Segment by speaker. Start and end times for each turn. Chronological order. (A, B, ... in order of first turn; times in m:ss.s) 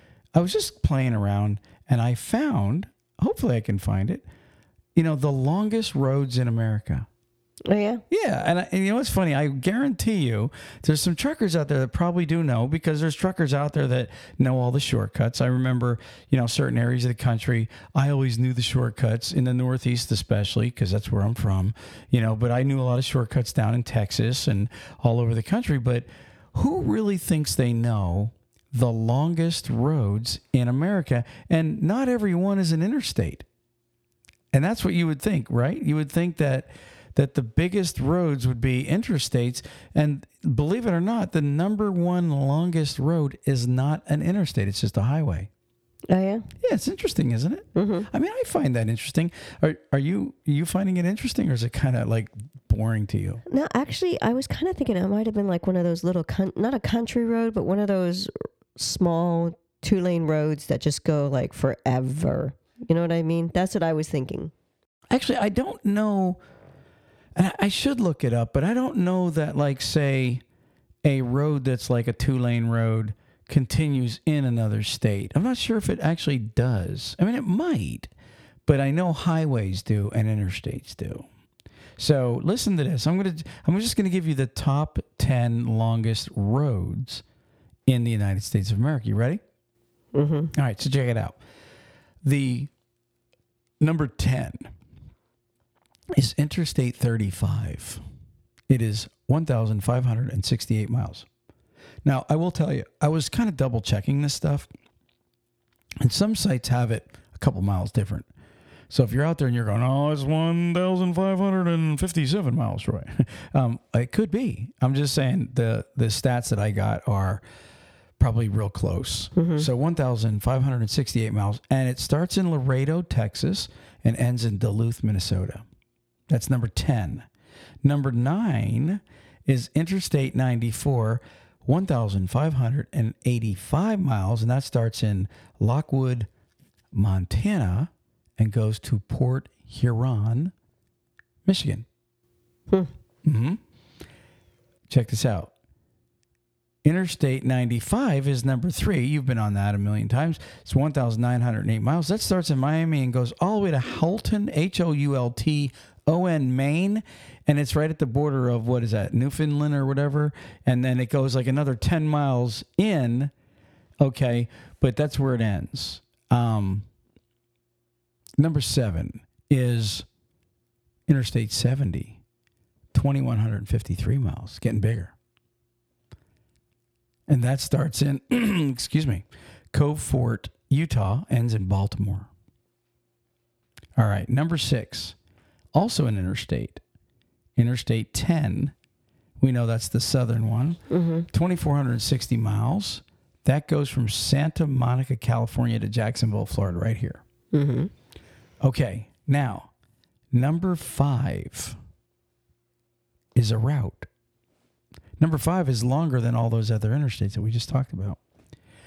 0:00.3-0:04.2 A
0:04.9-0:07.1 A
0:07.6-0:08.0 B
0:08.1-0:33.4 A
0:34.5-0:45.5 A
0:46.1-0:46.5 B
0:46.6-0:53.4 A
0:47.7-0:48.1 B
0:53.4-1:04.5 B
1:05.1-1:06.4 A
1:07.4-1:10.4 A
1:11.0-1:18.1 A
1:18.6-1:21.3 A
1:22.0-1:27.2 A
1:27.9-1:29.4 A
1:30.1-1:30.5 B
1:30.5-1:31.4 A
1:32.2-1:32.7 A
1:33.8-1:34.7 A
1:36.1-1:38.0 A
1:38.7-1:41.3 A
1:42.0-1:44.7 A
1:46.0-1:48.3 A
1:48.9-1:57.4 A
1:58.2-2:05.6 A
1:59.4-1:59.7 B
2:06.3-2:07.2 A
2:07.8-2:16.3 A
2:16.9-2:20.5 A
2:21.4-2:21.8 A
2:23.2-2:23.6 A
2:24.9-2:25.5 A
2:26.8-2:43.3 A
2:44.0-2:46.8 A
2:48.4-2:50.0 A
2:51.1-2:52.2 A
2:52.9-2:55.1 A
2:57.3-3:02.3 A
3:04.0-3:05.2 A
3:05.7-3:06.8 A
3:07.6-3:08.7 A
3:09.4-3:17.2 A
3:10.9-3:11.2 B
3:17.5-3:17.9 B
3:18.6-3:19.7 A
3:20.3-3:21.8 A
3:23.3-3:24.1 A
3:25.2-3:28.2 A